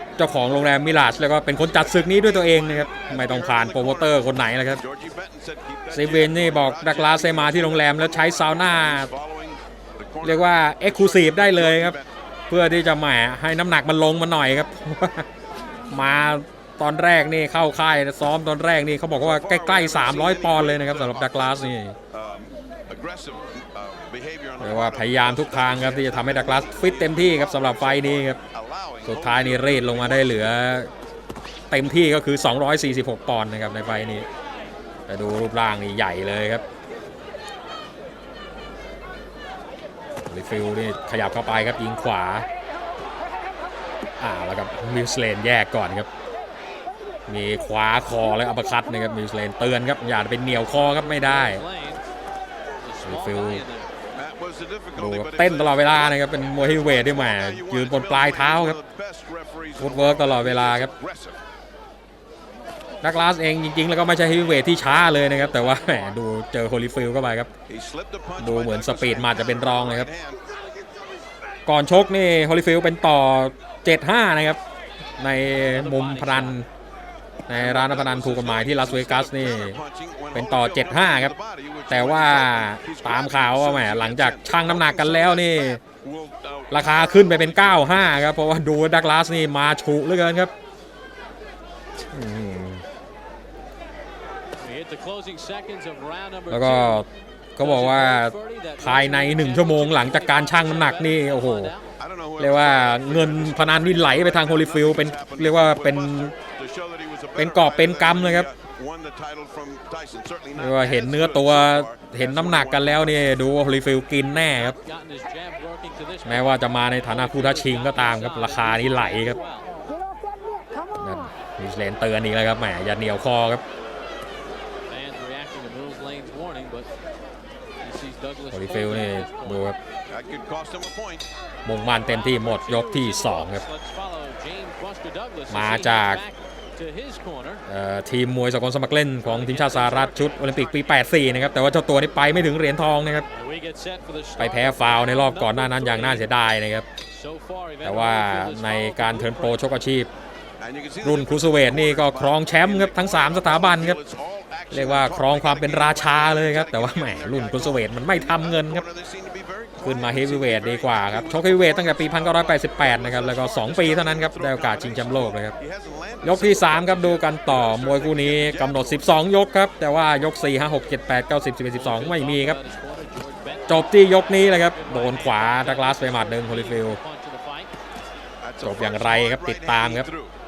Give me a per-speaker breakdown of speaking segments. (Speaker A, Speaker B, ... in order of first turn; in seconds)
Speaker A: 0.2-4.8, 5.9-9.1, 10.2-12.0, 12.5-15.3, 15.9-22.0, 24.6-28.4, 29.1-30.9, 31.7-34.3, 35.1-36.6, 40.2-42.5, 44.2-46.1, 47.3-51.6, 53.1-53.6, 55.0-58.8, 59.8-60.9, 63.0-67.5, 68.4-70.1, 71.7-74.6, 75.2-76.7, 77.5-79.8, 80.3-81.3, 81.9-85.8, 86.7-90.5, 92.1-92.8, 96.5-101.7, 102.4-106.3, 107.4-108.5, 110.6-114.8, 116.2-119.4, 121.0-123.6, 128.5-129.8, 131.7-133.6, 135.5-136.2, 137.7-143.3, 144.4-146.9, 147.8-150.1, 151.0-154.0, 154.7-158.8, 159.8-165.6, 166.2-172.6, 173.7-177.0, 178.6-180.1
Speaker B: 2.9-12.1, 19.2-30.5, 54.1-61.4, 67.7-70.4, 77.5-88.2, 102.0-113.4, 130.1-131.3, 150.6-169.2, 178.4-180.3
Speaker C: 50.9-52.0, 52.8-53.9, 64.8-66.2, 75.7-76.6, 94.6-97.1, 97.6-101.9, 114.8-119.7, 124.9-126.9, 127.8-129.8, 131.9-137.6, 139.2-140.7, 143.3-146.3, 147.1-149.6, 171.7-173.9, 174.7-177.7